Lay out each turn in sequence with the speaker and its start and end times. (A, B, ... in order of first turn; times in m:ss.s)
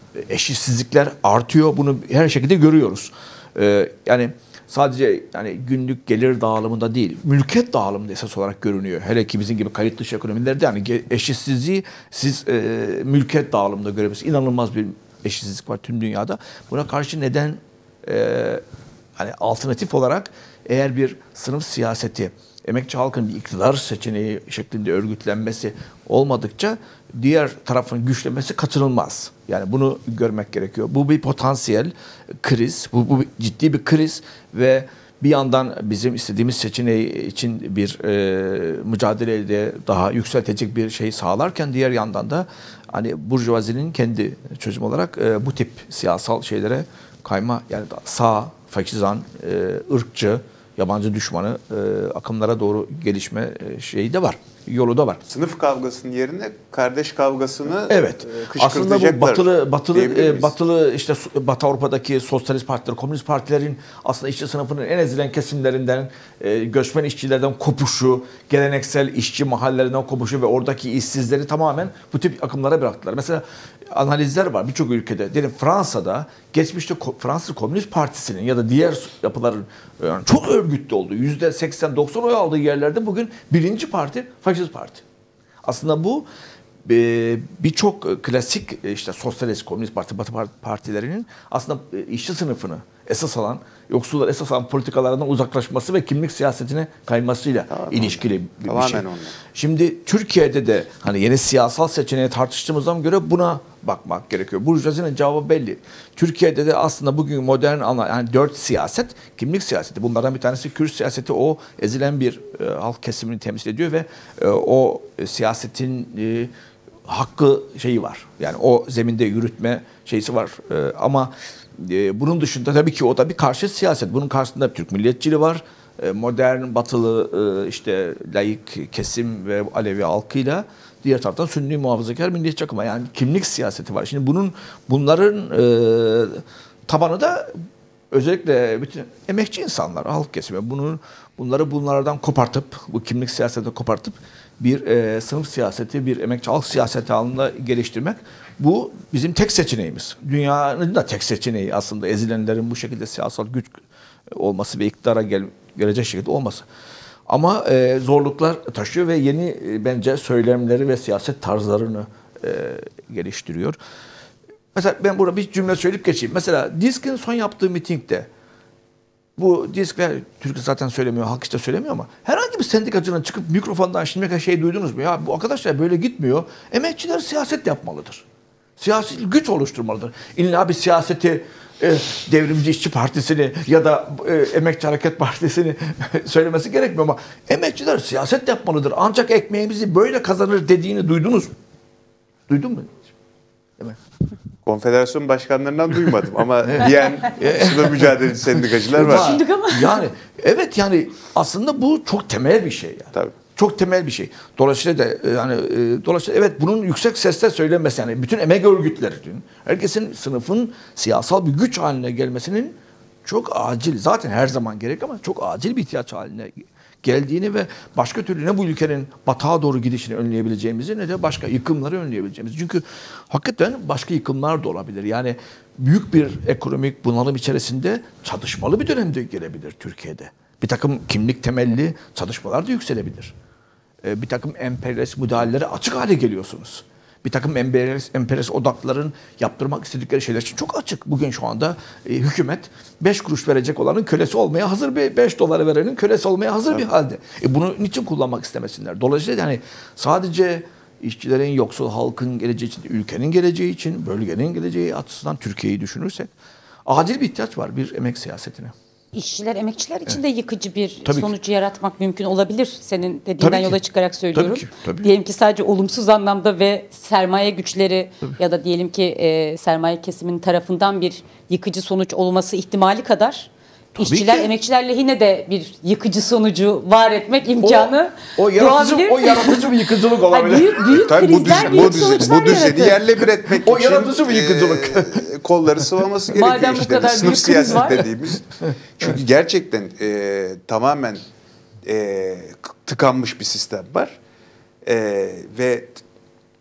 0:00.2-0:18.6 A
0:19.2-0:55.2 A
0:55.2-1:00.5 B
0:57.9-1:25.0 A
1:25.6-1:26.2 A
1:26.8-1:56.5 A
1:37.7-1:39.4 B
1:57.0-2:17.5 A
2:18.1-2:33.8 A
2:34.3-2:36.6 A
2:37.3-2:43.8 A
2:44.7-2:48.3 A
2:49.4-2:58.2 A
2:58.8-3:11.5 A
3:12.5-3:13.0 A
3:14.6-3:19.4 B
3:16.7-3:36.5 A
3:19.0-3:20.0 C
3:37.0-3:53.3 A
3:54.0-4:16.3 A
4:16.8-4:18.7 A
4:19.1-4:43.0 C
4:21.0-4:21.3 A
4:23.4-4:23.8 A
4:24.3-4:25.1 A
4:33.9-4:34.5 A
4:37.6-4:42.9 A
4:41.0-4:51.2 B
4:43.5-4:45.3 A
4:46.3-4:48.0 C
4:47.5-4:47.8 A
4:51.8-4:54.2 B
4:54.8-4:56.0 B